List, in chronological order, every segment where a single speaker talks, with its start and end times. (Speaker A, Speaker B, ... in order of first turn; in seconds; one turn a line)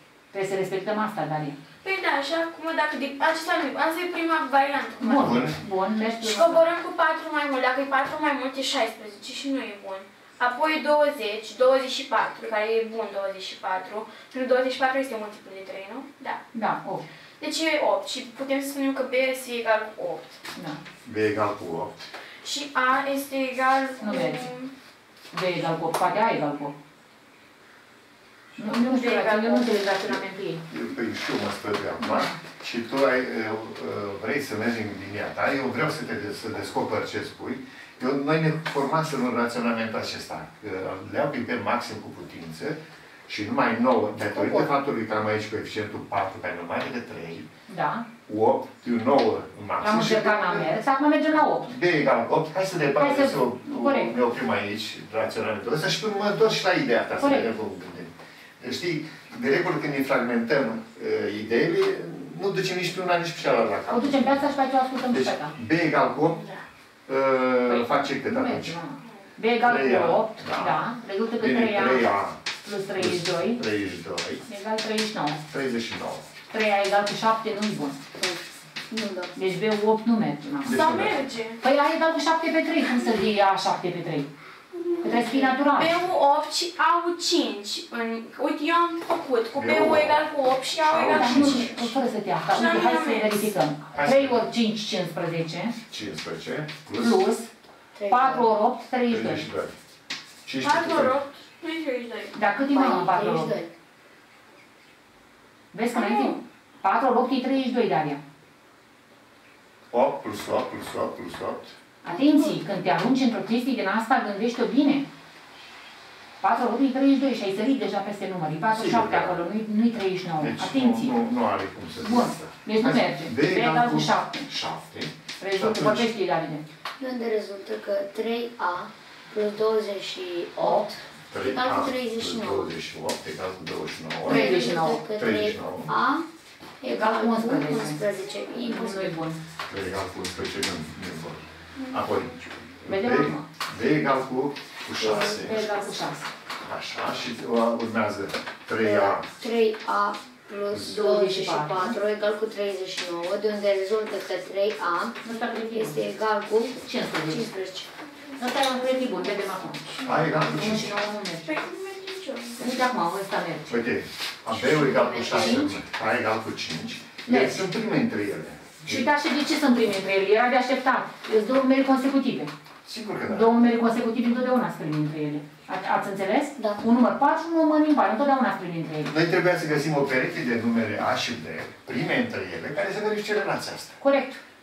Speaker A: 0.3-1.6
Speaker B: 1.8-5.5
Speaker A: 5.0-6.6
Speaker C: 5.1-5.6
Speaker B: 6.2-16.4
Speaker A: 16.5-17.0
Speaker B: 17.4-20.4
Speaker A: 20.5-20.8
Speaker C: 21.0-22.1
Speaker B: 22.4-24.7
Speaker A: 24.0-24.5
Speaker A: 25.3-26.7
Speaker A: 28.6-30.6
Speaker B: 28.6-29.8
Speaker C: 30.1-47.5
Speaker A: 32.0-32.4
Speaker D: 44.2-44.7
Speaker A: 47.7-48.0
Speaker C: 48.3-50.8
Speaker A: 49.8-51.7
Speaker C: 51.6-64.5
Speaker A: 53.0-54.1
Speaker A: 57.1-57.6
Speaker A: 63.9-65.5
Speaker C: 65.1-66.4
Speaker B: 66.2-66.6
Speaker C: 67.1-68.8
Speaker A: 67.6-72.1
Speaker B: 69.0-69.3
Speaker C: 69.6-70.8
Speaker C: 71.4-72.4
Speaker A: 72.6-73.6
Speaker C: 72.9-74.4
Speaker A: 74.5-75.4
Speaker C: 75.5-76.3
Speaker A: 76.5-78.0
Speaker D: 78.2-79.3
Speaker A: 79.3-80.8
Speaker C: 80.6-81.2
Speaker B: 80.7-81.6
Speaker A: 81.6-84.3
Speaker B: 84.7-91.9
Speaker A: 85.0-86.0
Speaker D: 85.0-85.5
Speaker C: 89.5-91.9
Speaker A: 91.1-95.8
Speaker B: 92.5-93.5
Speaker C: 93.9-94.5
Speaker C: 95.9-97.2
Speaker A: 97.0-97.5
Speaker D: 97.9-98.5
Speaker A: 98.1-99.5
Speaker C: 99.1-99.7
Speaker C: 100.5-101.2
Speaker B: 100.6-102.4
Speaker A: 102.3-103.5
Speaker D: 102.7-103.7
Speaker A: 105.7-108.2
Speaker B: 105.9-106.4
Speaker C: 109.9-111.7
Speaker A: 112.0-115.0
Speaker D: 112.1-112.6
Speaker A: 116.4-121.1
Speaker C: 118.7-119.4
Speaker C: 120.4-126.1
Speaker A: 122.0-124.5
Speaker A: 125.4-126.6
Speaker D: 127.0-132.7
Speaker A: 130.6-130.9
Speaker C: 131.3-135.9
Speaker A: 134.2-135.0
Speaker D: 134.2-136.2
Speaker D: 136.8-139.2
Speaker A: 136.8-138.0
Speaker A: 138.5-139.4
Speaker C: 139.7-145.7
Speaker B: 141.8-142.3
Speaker A: 142.8-143.4
Speaker D: 145.0-145.6
Speaker A: 145.0-146.3
Speaker C: 146.6-149.2
Speaker D: 148.8-157.9
Speaker C: 150.7-151.0
Speaker A: 150.8-152.0
Speaker A: 155.2-156.0
Speaker A: 156.8-157.5
Speaker B: 158.1-162.8
Speaker A: 158.4-161.5
Speaker C: 160.0-161.0
Speaker A: 162.6-163.8
Speaker C: 163.7-169.1
Speaker D: 164.5-165.7
Speaker A: 165.3-165.7
Speaker A: 167.2-167.7
Speaker A: 168.8-172.5
Speaker C: 172.8-173.7
Speaker A: 173.3-179.1
Speaker C: 179.1-184.0
Speaker A: 184.0-184.4